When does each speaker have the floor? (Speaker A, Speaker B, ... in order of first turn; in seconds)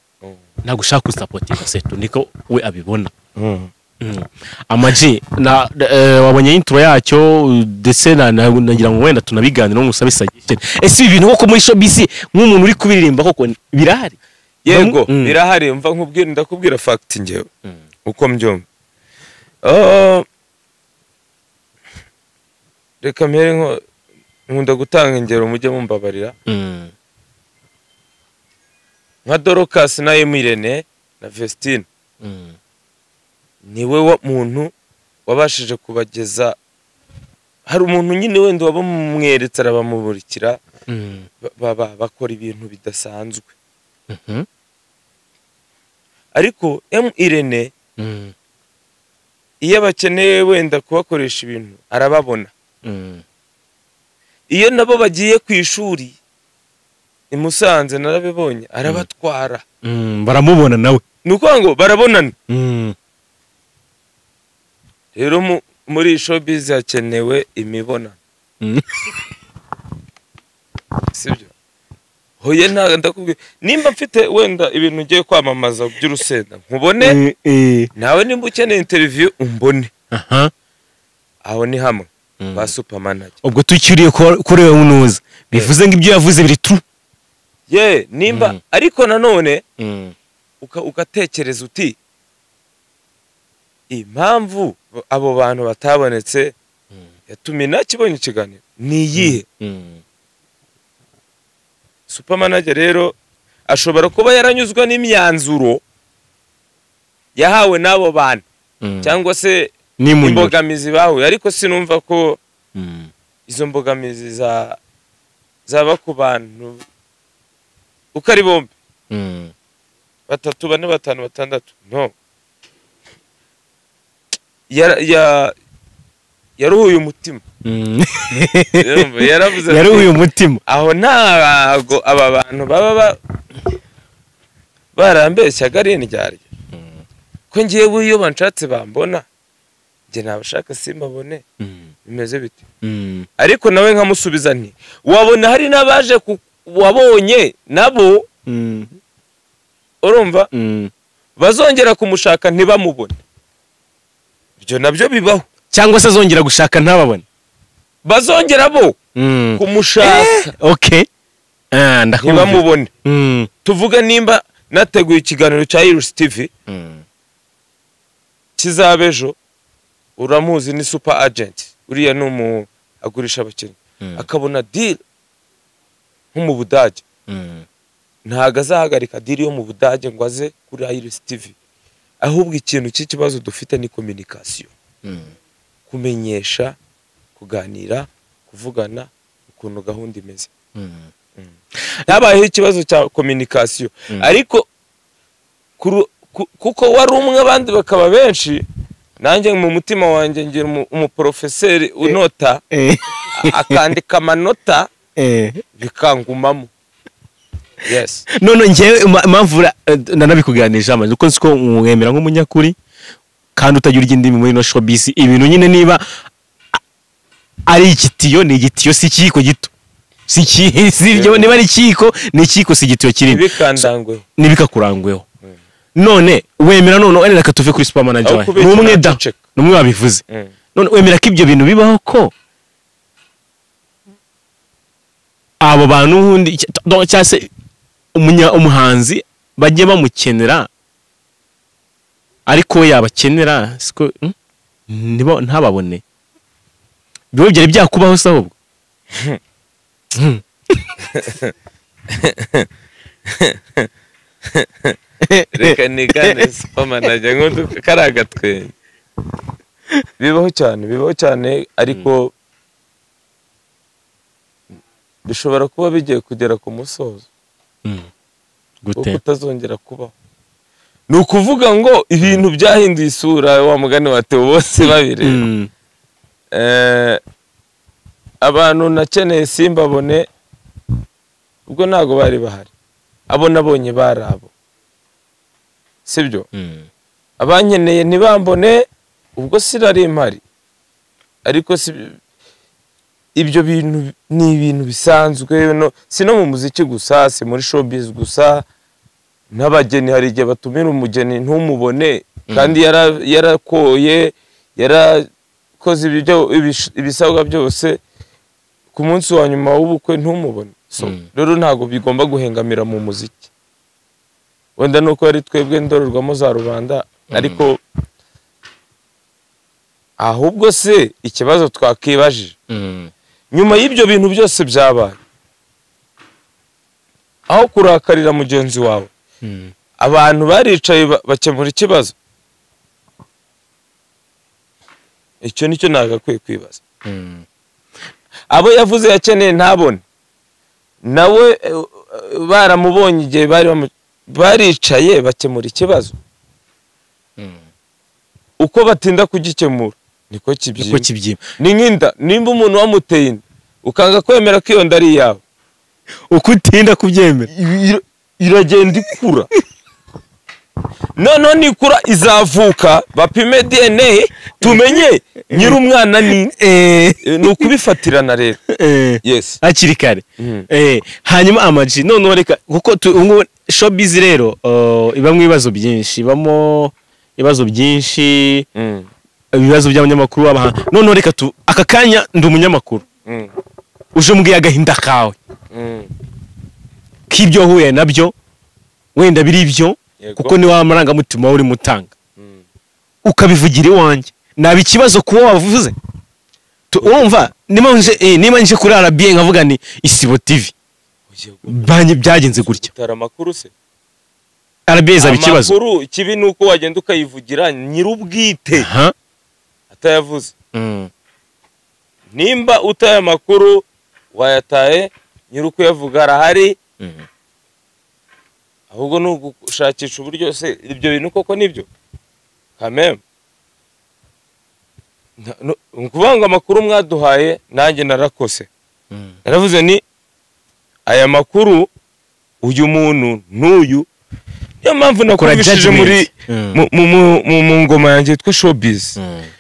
Speaker A: 0.6-3.1, 4.0-14.2, 14.7-15.3, 26.5-26.9, 32.2-32.6, 40.9-41.3, 44.1-44.5, 48.0-48.3, 52.8-53.2, 59.8-61.0, 62.5-63.0, 68.6-69.0, 77.0-77.9, 80.1-80.5, 82.4-82.7, 83.4-86.8, 88.3-88.6, 89.8-90.2, 99.2-100.0, 108.8-109.2, 110.0-110.5, 112.8-113.1, 119.1-119.5, 127.7-130.6, 136.7-137.0, 142.8-143.3, 148.5-148.9, 150.5-150.9, 155.7-157.2, 159.2-161.1, 161.7-163.5, 166.7-167.0, 177.3-177.7, 185.0-185.3, 190.8-191.1, 202.7-203.8, 205.2-205.6, 208.3-212.8, 213.6-216.0, 217.7-219.7, 220.3-223.9, 224.4-225.2, 226.0-230.2, 230.8-232.3, 235.6-237.5, 238.1-240.7, 242.5-244.3, 244.9-246.0, 247.3-248.5, 250.1-250.9, 255.2-256.4, 268.8-269.2, 274.9-275.7, 286.5-286.9, 302.5-302.8, 311.0-311.3, 317.3-317.6, 322.7-323.1, 329.4-329.7, 337.1-337.4, 350.8-351.4, 356.3-357.5, 366.6-367.7, 368.7-378.7, 379.5-383.0, 384.1-385.4, 387.3-388.3, 389.1-392.1, 393.2-396.0, 396.9-400.7, 401.7-402.9, 404.9-405.8, 408.8-409.1, 410.7-411.1, 417.0-417.2, 435.4-436.8, 439.2-439.5
Speaker B: 3.4-3.7, 14.7-17.5, 18.1-18.7, 19.6-20.3, 23.0-23.8, 24.5-26.4, 29.3-31.9, 33.6-34.7, 35.3-36.6, 37.7-40.6, 41.4-43.5, 46.4-47.7, 49.6-52.5, 54.5-56.2, 57.3-59.6, 61.2-62.3, 65.2-68.2, 71.1-71.5, 72.4-77.2, 78.0-79.9, 81.5-83.4, 87.7-89.6, 90.6-92.0, 93.9-96.5, 97.3-99.5, 102.1-103.2, 103.7-105.8, 107.4-108.4, 109.0-112.4, 113.5-114.8, 115.7-116.8, 118.2-118.7, 120.3-122.1, 124.7-125.5, 126.6-127.4, 128.8-133.2, 134.9-136.4, 137.5-139.3, 140.1-141.4, 142.1-142.6, 143.4-148.3, 150.0-150.5, 151.4-153.2, 154.6-155.5, 158.1-159.0, 159.6-160.5, 162.2-162.9, 163.6-166.5, 168.6-169.4, 170.2-175.0, 176.3-177.0, 178.3-181.6, 182.2-184.7, 185.9-186.8, 187.4-190.5, 192.1-194.7, 195.8-198.6, 199.2-202.6, 203.3-204.9, 205.8-206.7, 207.8-208.3, 221.1-221.5, 223.3-224.2, 228.2-229.4, 230.3-230.5, 251.1-251.5, 252.1-252.7, 253.3-253.9, 254.5-255.0, 255.5-258.7, 260.2-262.3, 265.3-267.3, 269.0-270.1, 271.1-275.4, 276.5-277.2, 278.4-280.3, 281.7-282.7, 283.3-284.5, 286.1-286.5, 287.4-288.9, 289.4-290.4, 291.4-292.2, 293.4-298.7, 299.5-305.3, 305.8-308.0, 308.9-313.5, 314.8-317.8, 320.2-322.6, 323.5-325.2, 327.5-329.1, 330.0-332.1, 335.4-336.8, 338.5-340.0, 341.0-346.1, 348.6-351.1, 351.6-355.4, 357.5-359.5, 361.2-366.6, 367.2-368.6, 369.2-369.6, 370.4-370.7, 378.8-379.1, 383.3-383.5, 385.7-386.1, 390.2-390.6, 392.4-392.6, 397.0-397.4, 401.3-402.0, 402.5-403.7, 405.2-408.9, 409.9-410.5, 412.3-416.8, 418.9-421.9, 422.8-423.2, 425.4-428.7, 429.4-430.0, 431.1-431.9, 432.6-434.1, 434.8-439.2